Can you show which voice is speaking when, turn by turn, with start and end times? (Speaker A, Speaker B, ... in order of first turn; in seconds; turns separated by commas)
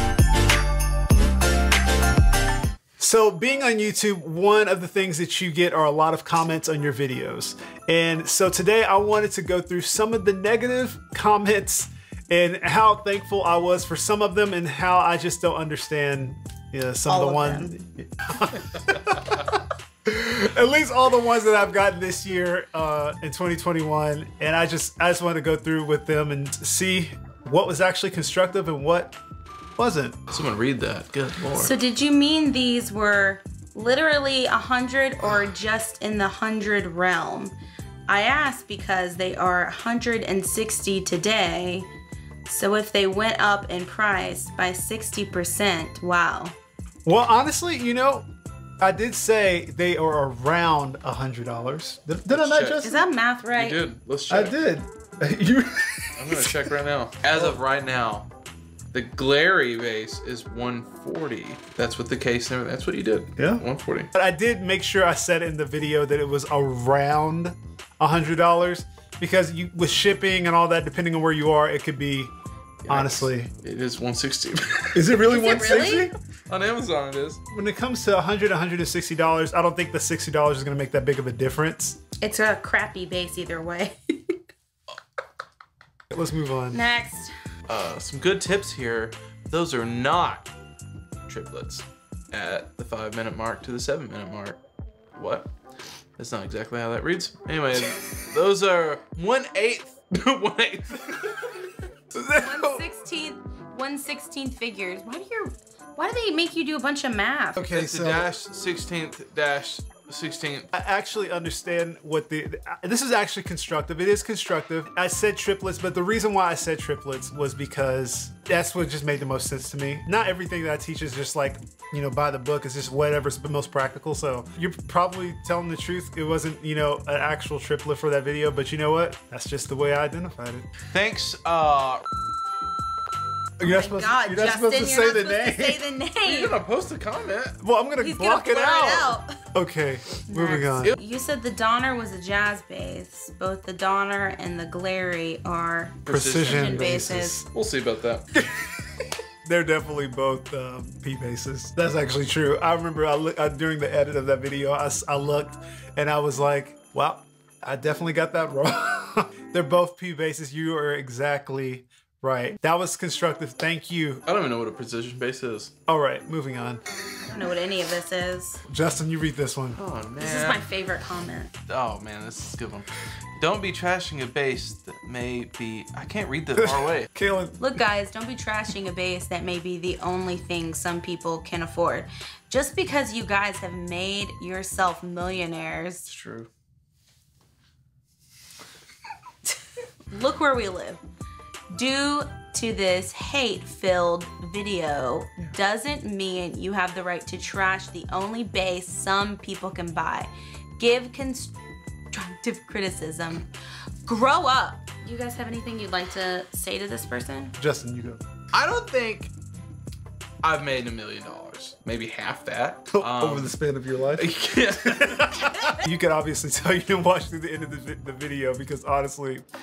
Speaker A: 3.0-29.1, Speaker B: 17.1-17.8, Speaker A: 29.8-30.2, Speaker C: 30.3-31.7, Speaker B: 31.6-37.5, Speaker B: 38.1-41.9, Speaker B: 42.5-46.5, Speaker A: 47.0-48.3, Speaker A: 48.8-53.0, Speaker C: 52.3-52.8, Speaker B: 52.8-53.8, Speaker C: 53.5-54.5, Speaker A: 54.3-56.5, Speaker C: 56.2-58.3, Speaker C: 58.9-64.1, Speaker A: 63.4-72.3, Speaker C: 72.8-75.2, Speaker A: 72.9-73.5, Speaker A: 74.9-76.1, Speaker B: 75.2-76.1, Speaker C: 76.5-77.4, Speaker A: 77.5-82.0, Speaker B: 82.2-84.4, Speaker A: 86.1-86.8, Speaker B: 86.7-87.3, Speaker C: 87.7-90.5, Speaker C: 91.2-94.6, Speaker C: 95.1-95.5, Speaker C: 96.2-101.6, Speaker A: 102.1-102.8, Speaker B: 102.3-107.7, Speaker A: 107.5-108.3, Speaker C: 107.7-110.7, Speaker A: 110.7-130.7, Speaker C: 130.9-132.0, Speaker A: 133.6-135.8, Speaker B: 133.6-136.6, Speaker C: 136.2-137.6, Speaker A: 137.6-140.9, Speaker B: 138.0-139.3, Speaker B: 140.3-147.4, Speaker C: 146.1-146.9, Speaker A: 146.1-147.4, Speaker C: 147.5-148.3, Speaker A: 148.3-148.8, Speaker A: 149.4-164.2, Speaker C: 164.2-165.7, Speaker A: 165.9-166.8, Speaker B: 167.2-168.6, Speaker A: 168.7-169.8, Speaker C: 169.8-170.6, Speaker B: 170.2-171.5, Speaker C: 171.7-177.1, Speaker A: 176.6-177.8, Speaker B: 177.6-186.1, Speaker C: 186.1-186.5, Speaker B: 190.1-191.0, Speaker B: 191.7-201.5, Speaker B: 202.1-203.5, Speaker B: 204.1-207.5, Speaker A: 207.6-208.2, Speaker C: 208.5-209.3, Speaker C: 210.4-213.6, Speaker A: 212.9-219.4, Speaker C: 214.2-215.7